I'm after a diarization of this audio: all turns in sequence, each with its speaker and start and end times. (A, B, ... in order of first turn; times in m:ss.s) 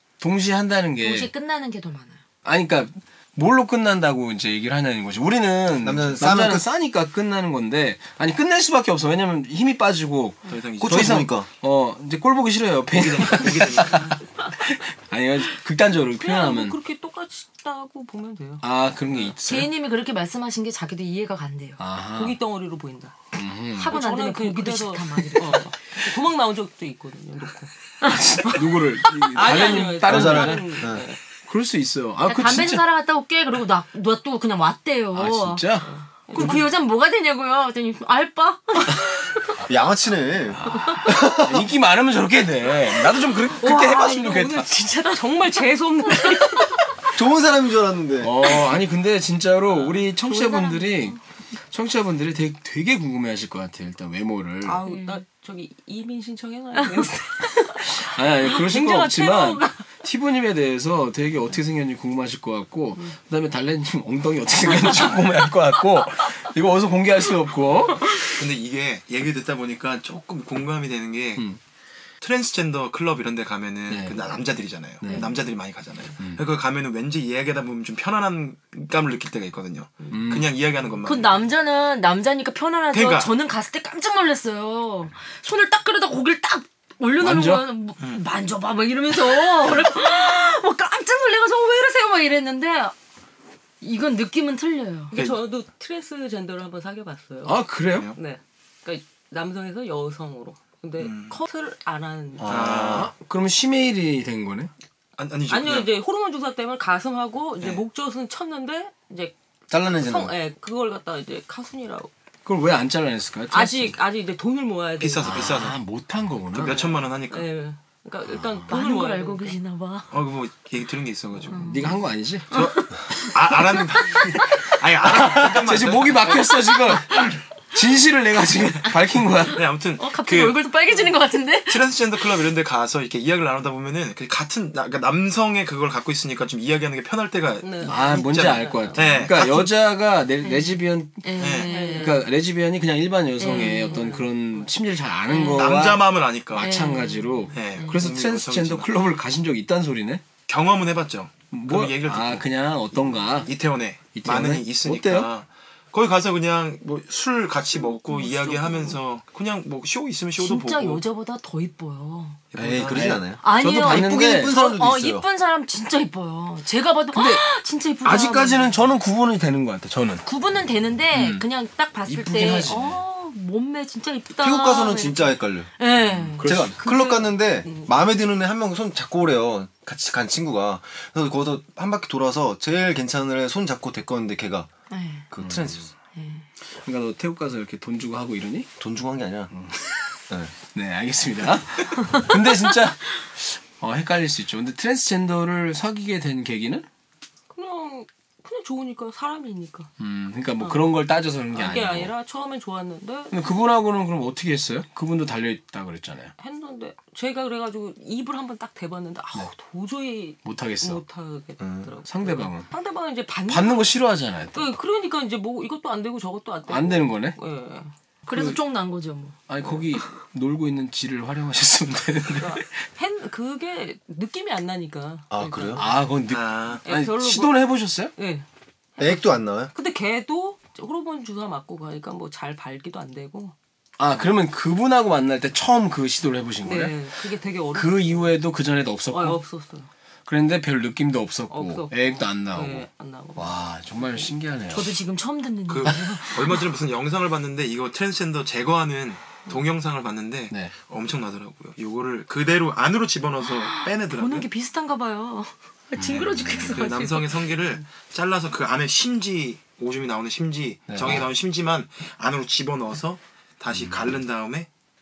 0:00.2-0:01.3 A
0:01.0-0:02.2 B
0:02.4-0:16.8 A
0:05.7-0:06.7 C
0:10.4-0:11.2 D
0:10.8-0:11.5 C
0:12.9-0:14.2 D
0:16.2-0:18.6 E
0:18.6-0:19.7 A
0:19.4-0:21.8 B
0:21.8-0:22.4 A
0:22.1-0:23.2 E
0:23.3-0:24.0 A
0:23.8-0:25.7 B
0:23.9-0:27.7 E
0:28.0-0:30.8 A
0:28.0-0:28.5 B
0:29.3-0:31.2 E
0:30.0-0:31.0 C
0:31.5-0:32.8 A
0:32.2-0:35.7 B
0:35.1-0:36.7 A
0:35.8-0:36.7 E
0:36.3-0:39.4 B
0:39.6-0:41.7 C
0:40.7-0:44.7 A
0:43.5-0:46.8 E
0:47.1-0:48.3 C
0:48.2-0:51.2 A
0:49.7-0:50.0 E
0:50.2-0:51.2 B
0:51.7-0:54.8 A
0:54.6-0:59.8 E
0:54.8-0:55.2 B
0:57.6-1:08.2 A
1:08.4-1:11.4 D
1:12.2-1:21.4 D
1:13.9-1:14.2 A
1:15.0-1:15.3 A
1:16.2-1:16.4 A
1:20.1-1:20.5 A
1:21.0-1:32.9 B
1:22.9-1:23.3 D
1:27.2-1:27.7 A
1:33.8-1:35.2 B
1:35.1-1:37.6 E
1:35.1-1:35.4 D
1:37.4-1:38.1 A
1:37.9-1:38.2 D
1:38.2-1:42.6 E
1:41.0-1:41.4 D
1:42.4-1:43.1 C
1:42.4-1:43.1 D
1:42.9-1:44.7 A
1:45.2-1:45.9 D
1:45.5-1:49.3 E
1:49.7-1:50.3 C
1:49.8-1:52.1 E
1:52.4-1:54.0 A
1:53.5-1:55.5 E
1:55.0-1:55.8 D
1:55.2-1:56.8 A
1:56.5-1:57.5 D
1:56.7-1:59.6 E
1:58.3-1:58.6 A
1:58.7-2:00.1 B
2:00.1-2:01.7 D
2:01.5-2:02.0 B
2:01.6-2:02.9 A
2:02.5-2:03.6 B
2:03.3-2:06.6 D
2:04.3-2:09.6 A
2:09.5-2:10.7 D
2:10.0-2:11.9 B
2:11.7-2:19.7 D
2:17.6-2:19.3 E
2:17.8-2:30.3 A
2:20.4-2:22.2 B
2:21.4-2:21.7 D
2:21.6-2:22.2 E
2:23.4-2:24.0 B
2:23.4-2:24.7 E
2:25.3-2:25.8 B
2:25.5-2:26.7 D
2:26.6-2:27.9 B
2:27.5-2:28.9 D
2:30.5-2:32.4 D
2:31.5-2:33.5 A
2:33.4-2:41.0 D
2:34.1-2:35.3 A
2:38.2-2:38.9 E
2:40.4-2:42.4 B
2:42.5-2:43.2 D
2:42.6-2:45.2 C
2:42.9-2:44.6 A
2:43.4-2:48.8 B
2:47.1-2:47.4 A
2:48.0-2:50.2 A
2:50.2-2:56.4 B
2:51.1-2:51.5 A
2:52.0-2:53.0 A
2:54.4-2:55.7 C
2:56.0-2:56.8 A
2:56.4-3:04.7 C
2:56.8-2:57.9 E
3:04.9-3:05.2 B
3:05.3-3:05.9 C
3:05.4-3:05.8 A
3:06.1-3:06.4 B
3:06.8-3:08.7 A
3:08.8-3:09.5 C
3:09.5-3:10.0 A
3:10.7-3:16.8 A
3:17.5-3:19.9 E
3:20.0-3:22.1 A
3:20.6-3:20.9 E
3:21.5-3:23.4 E
3:23.3-3:26.3 A
3:26.4-3:33.9 E
3:30.4-3:31.0 A
3:31.6-3:31.9 C
3:32.1-3:32.7 A
3:33.5-3:34.7 A
3:34.5-3:37.9 E
3:36.7-3:37.4 A
3:38.3-3:39.4 B
3:38.3-3:38.6 A
3:39.5-3:42.8 A
3:42.4-3:45.9 E
3:45.3-3:45.9 C
3:45.8-3:48.1 A
3:46.3-3:46.8 D
3:46.8-3:48.4 E
3:49.0-3:53.5 E
3:49.0-3:49.7 C
3:54.0-3:57.0 A
3:56.6-3:58.3 E
3:57.7-3:59.4 A
3:59.1-3:59.9 E
4:00.3-4:04.9 A
4:01.5-4:04.3 E
4:04.7-4:06.5 B
4:05.7-4:14.5 D
4:13.4-4:17.4 B
4:16.0-4:16.9 A
4:16.7-4:24.7 D
4:20.9-4:21.3 A
4:23.7-4:24.1 A